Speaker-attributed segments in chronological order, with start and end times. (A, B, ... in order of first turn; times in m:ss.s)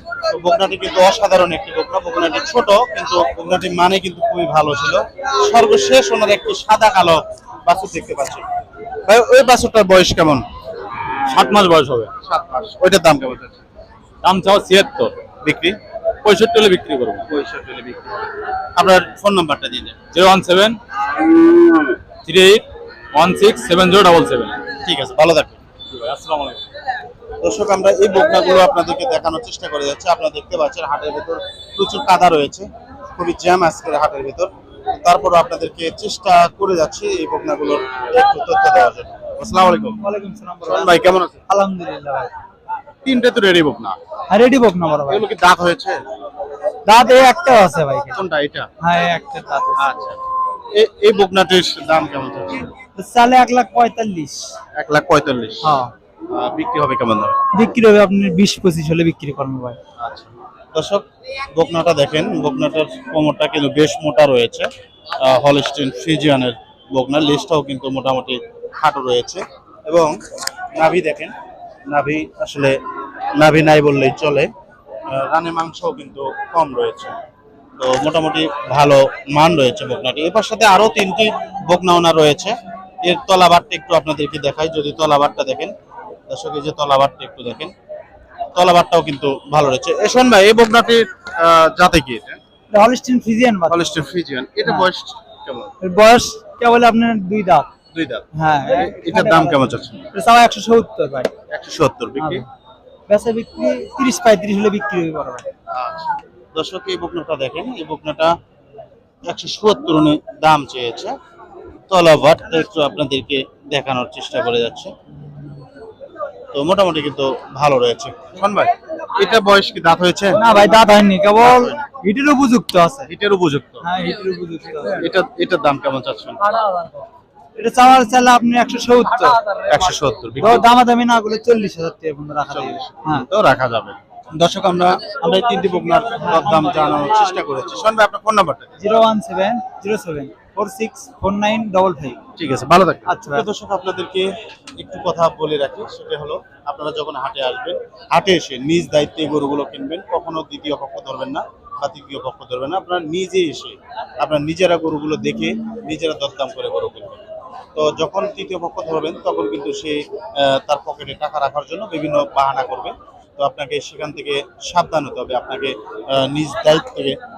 0:00.2-0:08.5 A
0:09.1-0:10.4 A
0:11.3-0:12.1 B
0:12.2-0:13.6 A
0:14.2-0:15.2 B
0:15.4-0:15.8 A
0:16.2-0:17.2 B
0:17.3-0:18.2 A
0:18.8-0:20.0 A
0:20.1-0:20.8 B
0:22.2-0:24.6 B
0:24.8-0:25.6 A
0:25.9-0:26.6 B
0:27.4-0:40.0 A
0:40.0-0:42.3 C
0:40.6-0:41.4 A
0:43.0-0:44.0 A
0:44.3-0:45.2 C
0:45.1-0:46.0 A
0:46.9-0:48.2 C
0:48.1-0:48.7 A
0:48.8-0:49.8 C
0:49.8-0:50.2 A
0:50.7-0:52.7 A
0:53.0-0:54.5 C
0:54.8-0:55.7 A
0:55.6-0:55.9 C
0:56.3-0:57.4 A
0:57.5-0:59.8 C
1:00.0-1:10.2 A
1:10.8-1:11.4 A
1:11.9-1:12.8 A
1:13.4-1:14.5 A
1:15.1-1:17.2 A
1:17.8-1:25.7 A
1:26.3-1:27.7 A
1:28.5-1:32.4 A
1:32.7-1:34.0 C
1:33.7-1:35.7 A
1:35.8-1:37.7 C
1:37.9-1:40.1 A
1:38.4-1:41.3 C
1:41.5-1:42.4 A
1:42.2-1:42.4 C
1:43.1-1:45.5 C
1:45.7-1:48.4 A
1:49.3-1:51.2 A
1:51.9-1:54.9 A
1:56.5-2:00.4 A
2:00.3-2:03.1 C
2:01.4-2:01.8 A
2:03.1-2:03.9 A
2:03.8-2:05.1 C
2:05.0-2:06.4 A
2:06.6-2:07.0 C
2:07.6-2:09.6 C
2:09.6-2:10.7 A
2:10.4-2:13.3 C
2:12.5-2:18.8 A
2:16.2-2:16.6 C
2:18.8-2:22.2 C
2:22.4-2:24.3 A
2:23.1-2:23.5 C
2:24.8-2:37.2 A
2:37.8-2:47.2 A